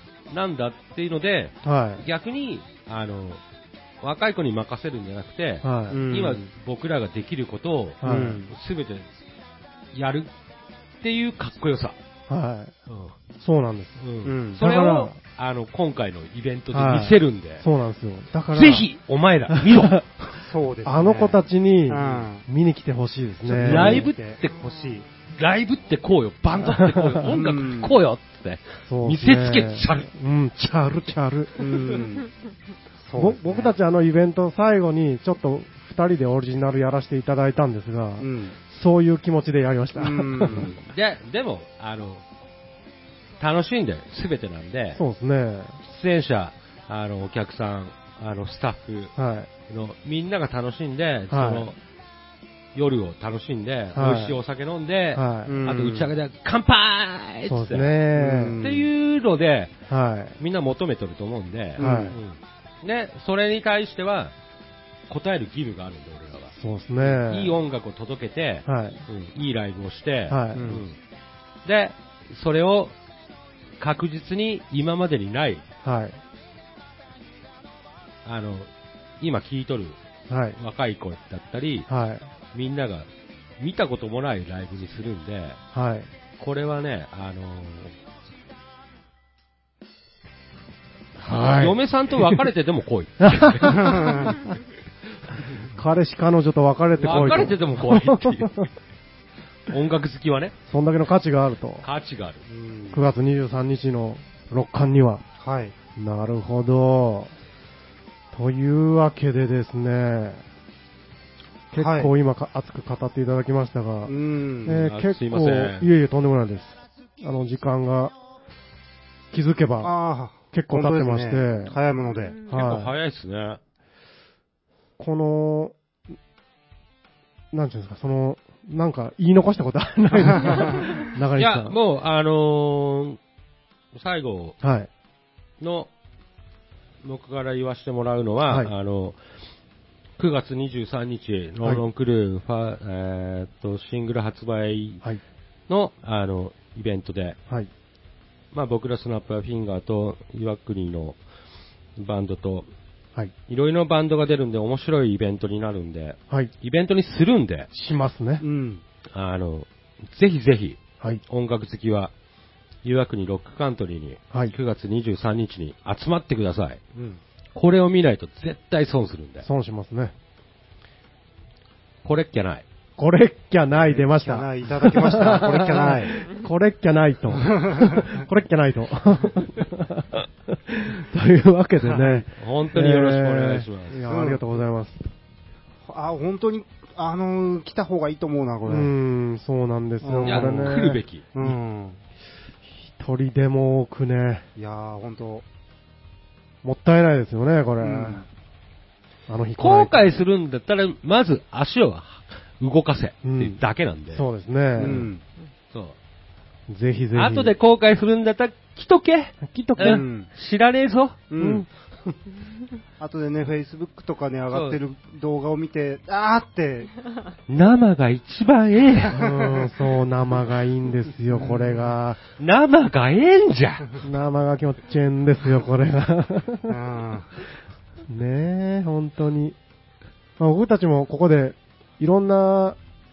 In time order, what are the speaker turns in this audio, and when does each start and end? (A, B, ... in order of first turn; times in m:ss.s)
0:00.3-0:03.4 A
0:01.6-0:02.0 B
0:04.0-0:09.1 A
0:05.6-0:06.1 B
0:05.9-0:06.4 C
0:08.0-0:08.4 B
0:08.0-0:08.5 C
0:09.9-0:10.3 A
0:11.0-0:12.0 A
0:12.3-0:12.7 B
0:12.9-0:13.2 A
0:13.4-0:14.0 B
0:14.0-0:17.6 A
0:14.2-0:14.6 C
0:14.6-0:15.2 B
0:16.7-0:18.9 B
0:18.5-0:20.4 A
0:19.5-0:19.9 B
0:20.4-0:22.4 C
0:20.8-0:24.1 B
0:23.4-0:24.6 A
0:23.5-0:25.1 C
0:25.3-0:30.1 A
0:26.9-0:27.2 B
0:27.2-0:28.0 C
0:28.9-0:31.6 B
0:31.6-0:32.3 C
0:33.0-0:33.8 C
0:33.2-0:40.7 B
0:38.2-0:38.6 C
0:40.0-0:40.8 C
0:40.6-0:42.2 A
0:43.4-0:45.0 A
0:45.0-0:45.8 B
0:45.8-0:49.2 A
0:49.2-0:49.5 B
0:49.7-0:51.8 A
0:51.3-0:51.7 B
0:52.8-0:58.0 A
0:53.9-0:54.4 B
0:55.1-0:55.6 B
0:55.4-0:56.1 C
0:57.4-0:58.6 B
0:58.2-0:58.9 C
0:58.6-0:59.7 A
0:59.9-1:00.4 B
1:00.4-1:04.3 A
1:01.8-1:02.2 C
1:01.8-1:02.2 B
1:05.1-1:11.0 A
1:06.6-1:07.6 B
1:08.7-1:09.0 B
1:10.3-1:10.8 B
1:10.5-1:10.8 C
1:11.6-1:13.0 A
1:13.8-1:15.6 A
1:15.8-1:16.2 B
1:18.2-1:20.0 A
1:20.3-1:20.6 B
1:20.6-1:21.9 A
1:21.9-1:22.3 B
1:22.5-1:25.6 A
1:25.7-1:26.1 B
1:26.4-1:27.9 A
1:31.2-1:32.5 B
1:31.3-1:34.5 A
1:33.2-1:34.1 B
1:33.7-1:34.4 C
1:35.7-1:38.5 B
1:37.0-1:38.7 A
1:39.7-1:40.6 A
1:40.7-1:41.9 B
1:41.8-1:42.4 A
1:42.5-1:43.0 C
1:42.9-1:45.2 B
1:45.4-1:45.8 C
1:46.0-1:47.4 B
1:48.3-1:50.4 B
1:51.7-1:58.1 B
1:51.8-1:52.1 C
1:54.1-1:54.8 C
1:54.7-1:55.9 A
1:59.3-1:59.9 B
1:59.8-2:02.4 C
2:00.5-2:01.8 B
2:02.5-2:02.9 B
2:02.5-2:03.6 A
2:05.0-2:05.8 B
2:07.5-2:11.8 B
2:10.3-2:10.8 C
2:11.4-2:13.2 A
2:13.9-2:14.6 A
2:14.6-2:14.9 B
2:15.6-2:15.9 A
2:17.0-2:19.2 A
2:18.5-2:18.7 B
2:20.2-2:25.0 A
2:25.7-2:27.4 A
2:28.5-2:31.2 A
2:32.0-2:32.7 A
2:33.5-2:37.7 A
2:37.7-2:38.4 B
2:38.4-2:38.8 C
2:39.1-2:42.1 A
2:42.8-2:46.8 A
2:47.0-2:47.2 C
2:47.6-2:49.5 A
2:49.4-2:50.1 B
2:52.0-2:52.6 A
2:53.0-3:05.0 B
2:53.8-2:56.2 C
2:57.4-2:58.2 C
3:01.9-3:02.2 C
3:02.3-3:04.0 A
3:04.0-3:04.4 C
3:05.9-3:08.9 C
3:08.7-3:11.6 B
3:10.0-3:12.0 C
3:10.2-3:11.2 A
3:12.8-3:14.5 B
3:14.6-3:15.4 C
3:16.6-3:18.2 B
3:17.8-3:18.3 C
3:19.3-3:20.1 B
3:19.6-3:24.3 A
3:23.2-3:25.1 B
3:24.8-3:25.2 C
3:24.8-3:25.1 A
3:25.7-3:26.0 A
3:26.7-3:27.5 B
3:27.1-3:31.3 A
3:29.4-3:30.0 B
3:29.8-3:30.3 C
3:31.3-3:31.7 C
3:31.4-3:31.7 B
3:33.0-3:37.0 C
3:34.5-3:34.8 A
3:37.5-3:39.2 A
3:39.0-3:39.7 C
3:39.1-3:42.2 B
3:41.3-3:41.9 C
3:42.4-3:44.0 A
3:44.0-3:46.8 B
3:46.7-3:47.4 C
3:48.1-3:49.6 B
3:50.4-3:52.8 B